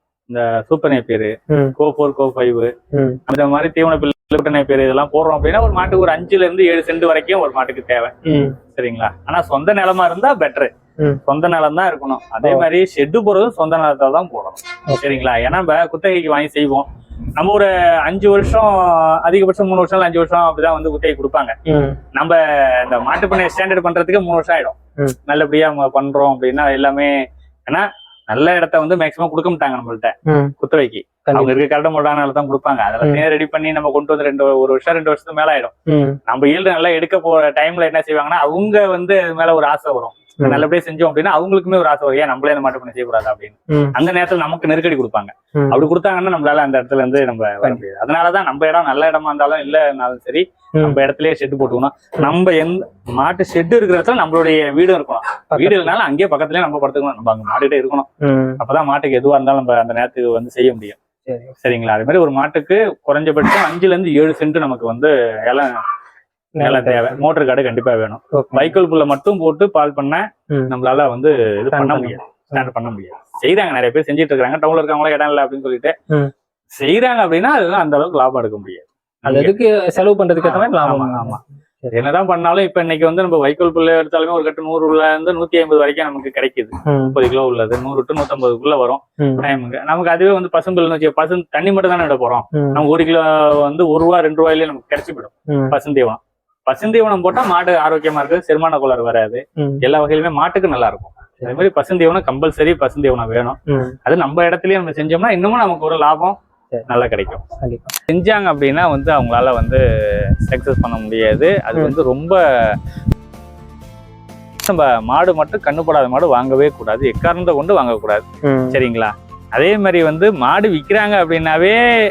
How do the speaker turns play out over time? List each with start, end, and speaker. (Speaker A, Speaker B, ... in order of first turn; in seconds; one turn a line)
Speaker A: 0.3-2.7
Speaker B: 1.5-1.8
Speaker B: 2.9-3.2
Speaker A: 3.3-8.1
Speaker B: 8.2-8.6
Speaker A: 8.7-10.7
Speaker A: 11.3-21.6
Speaker B: 14.9-15.2
Speaker B: 21.7-22.0
Speaker A: 22.1-24.8
Speaker A: 25.3-27.1
Speaker A: 27.7-35.7
Speaker B: 30.3-30.5
Speaker B: 31.3-31.6
Speaker B: 35.9-36.2
Speaker A: 36.3-58.1
Speaker B: 45.6-45.8
Speaker B: 55.5-56.0
Speaker B: 58.2-58.6
Speaker A: 58.6-61.0
Speaker B: 61.3-61.6
Speaker A: 61.6-65.8
Speaker B: 66.6-67.2
Speaker A: 66.6-75.9
Speaker B: 68.3-68.8
Speaker B: 71.7-72.7
Speaker A: 76.8-79.5
Speaker B: 79.3-81.9
Speaker A: 80.4-81.4
Speaker A: 81.9-107.5
Speaker B: 86.9-87.2
Speaker B: 89.2-89.5
Speaker B: 92.5-92.8
Speaker B: 95.5-95.8
Speaker B: 99.6-99.8
Speaker B: 103.7-104.0
Speaker B: 107.6-108.0
Speaker A: 108.1-112.8
Speaker A: 114.6-121.8
Speaker B: 118.4-118.8